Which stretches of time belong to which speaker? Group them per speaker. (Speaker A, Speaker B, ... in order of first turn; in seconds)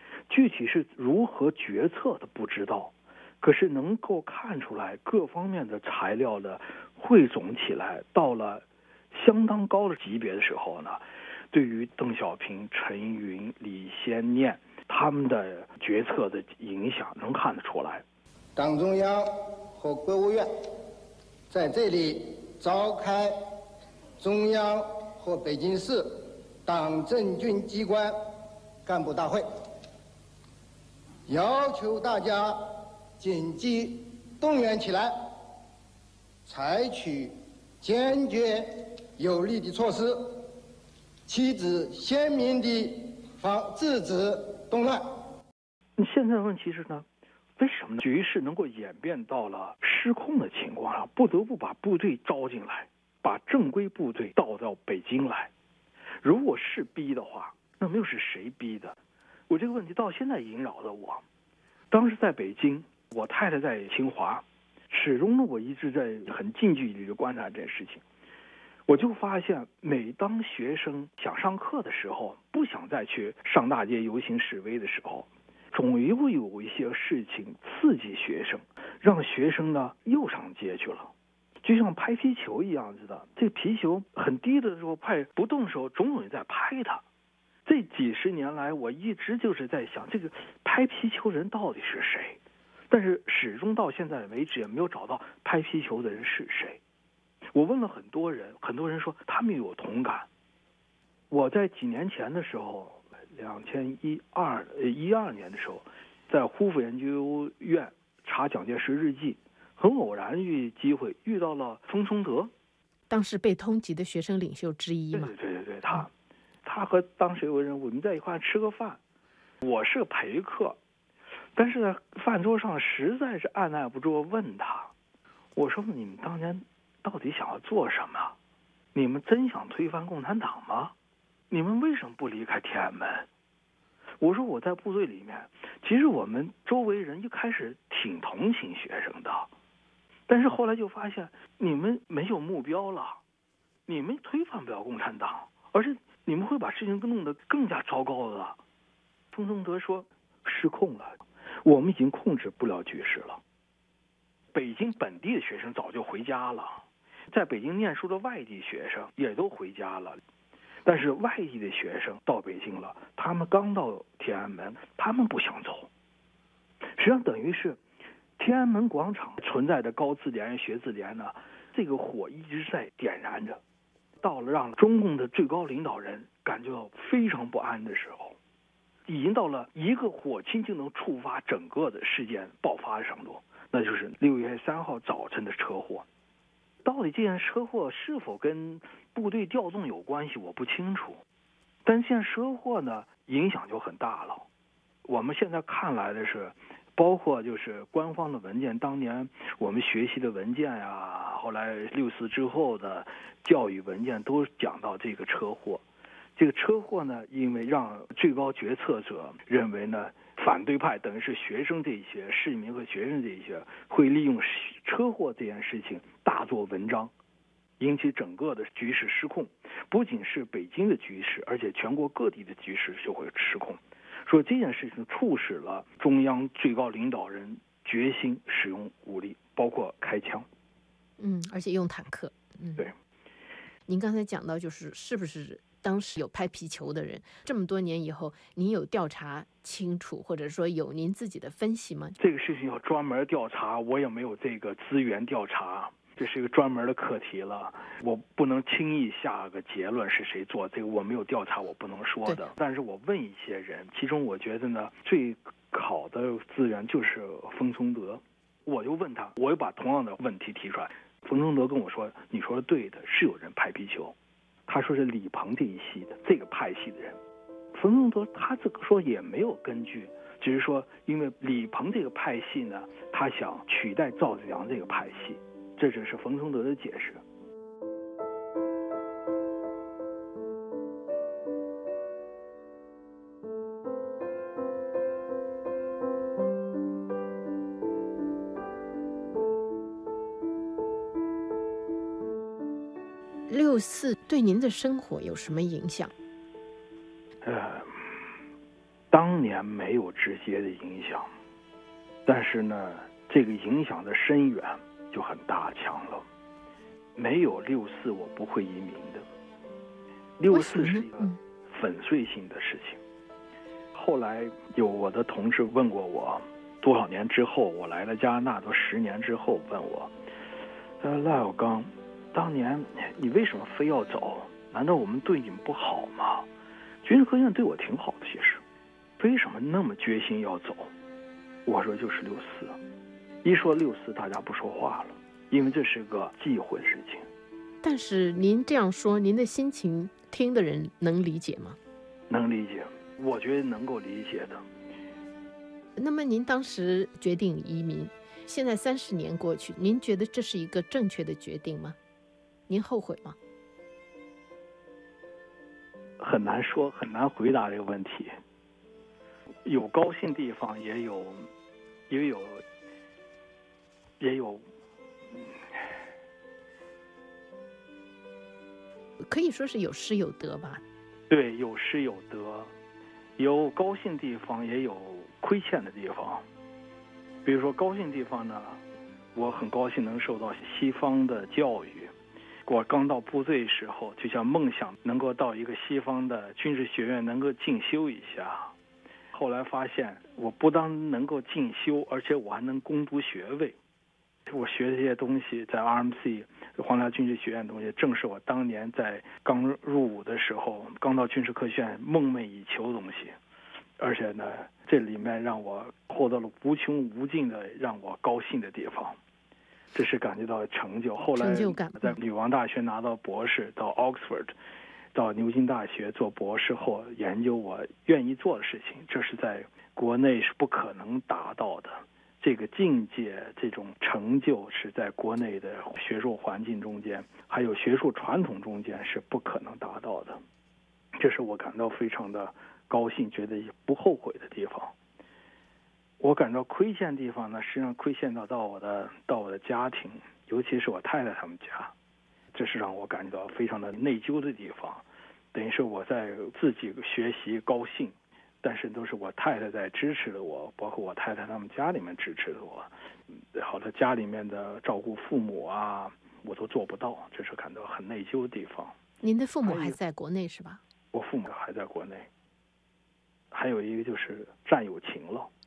Speaker A: 0.3-18.0, 46.0-47.0, 47.6-55.5, 56.2-59.0, 59.5-61.2, 61.9-68.0, 68.9-81.1, 81.6-87.0, 87.7-92.4, 92.9-96.8, 97.5-100.3, 101.3-112.5, 115.1-116.1, 116.6-119.0, 119.6-120.8, 121.6-124.9, 125.6-128.3, 128.9-130.9, 131.5-133.3, 134.2-139.5, 140.3-143.2, 143.9-148.6, 149.3-153.4, 154.5-160.2, 160.8-165.9, 167.0-167.8, 168.4-173.6, 174.2-178.4, 179.1-186.1, 186.8-191.2, 191.9-194.5, 195.1-205.8, 206.4-217.1, 217.8-230.5, 242.2-264.1, 264.7-267.2, 267.7-277.2, 297.4-298.0, 299.1-301.3, 302.3-306.2, 307.2-309.2, 310.4-313.0, 313.9-320.1, 321.0-326.5, 327.0-328.6, 329.2-330.9, 331.7-332.8, 333.4-337.2, 342.3-344.6, 356.2-358.3, 359.6-361.5, 362.1-362.6, 364.2-364.6, 371.3-372.7, 373.4-376.4, 377.4-378.8, 379.4-382.1, 382.7-388.7, 389.3-393.8, 394.5-403.3, 404.0-409.2, 409.9-414.6, 415.1-430.4, 431.2-434.9, 436.2-441.9, 442.5-445.0, 445.5-452.9, 453.5-458.9, 459.6-460.0, 461.1-462.3, 463.5-465.5
Speaker B: 18.6-20.5, 21.5-23.3, 24.2-28.1, 28.9-29.4, 31.3-35.1, 36.5-40.5, 41.3-45.0
Speaker C: 113.1-115.3, 231.2-232.9, 233.9-242.2, 293.5-296.1, 310.5-311.4, 337.8-341.8, 346.0-352.0, 352.7-353.4, 369.2-370.8, 411.4-412.2, 459.2-460.8